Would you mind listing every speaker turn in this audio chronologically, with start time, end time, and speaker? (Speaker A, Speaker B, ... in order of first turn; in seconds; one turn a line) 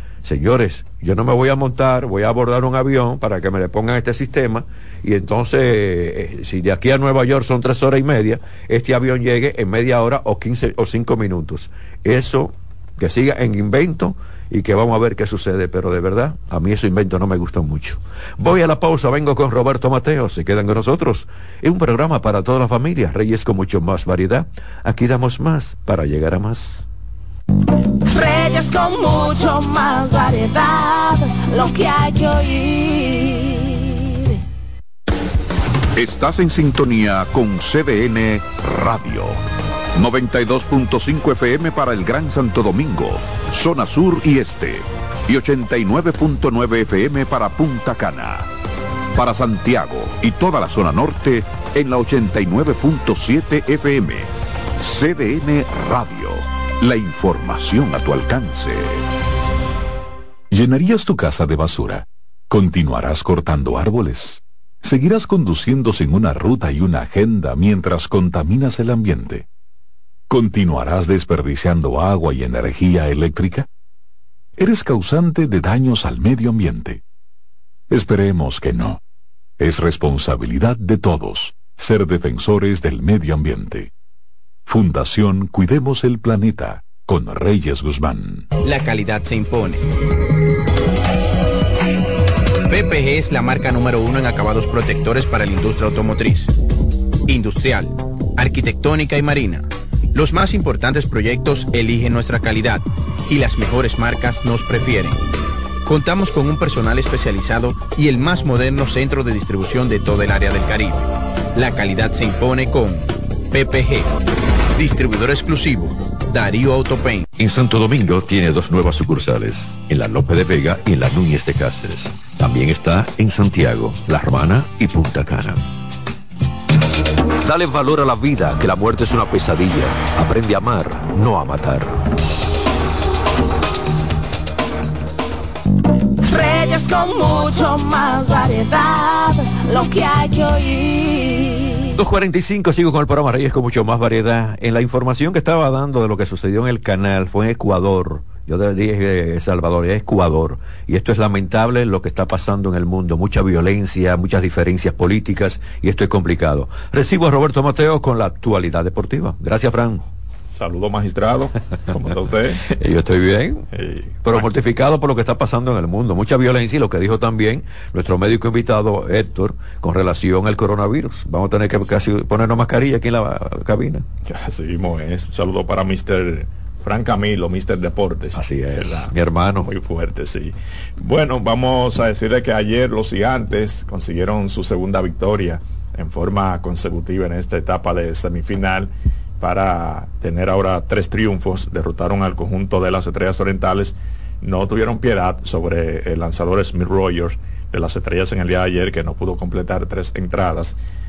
Speaker A: 0.2-26.9
Speaker B: 28.0-34.3
Speaker C: 35.9-39.4
Speaker C: 39.9-48.5
Speaker C: 49.1-59.0
Speaker D: 60.5-69.5
Speaker D: 70.3-73.7
Speaker D: 74.6-77.0
Speaker D: 77.9-79.0
Speaker D: 79.6-83.9
Speaker D: 84.7-88.5
Speaker E: 88.6-89.8
Speaker E: 92.7-96.5
Speaker E: 97.3-105.2
Speaker E: 105.8-114.1
Speaker E: 114.7-117.3
Speaker A: 117.4-125.6
Speaker A: 127.4-132.0
Speaker B: 136.2-141.8
Speaker A: 142.0-160.0
Speaker F: 160.5-162.7
Speaker A: 162.7-163.7
Speaker F: 163.7-164.5
Speaker A: 164.2-174.0
Speaker F: 174.2-200.8
Speaker A: 178.3-179.7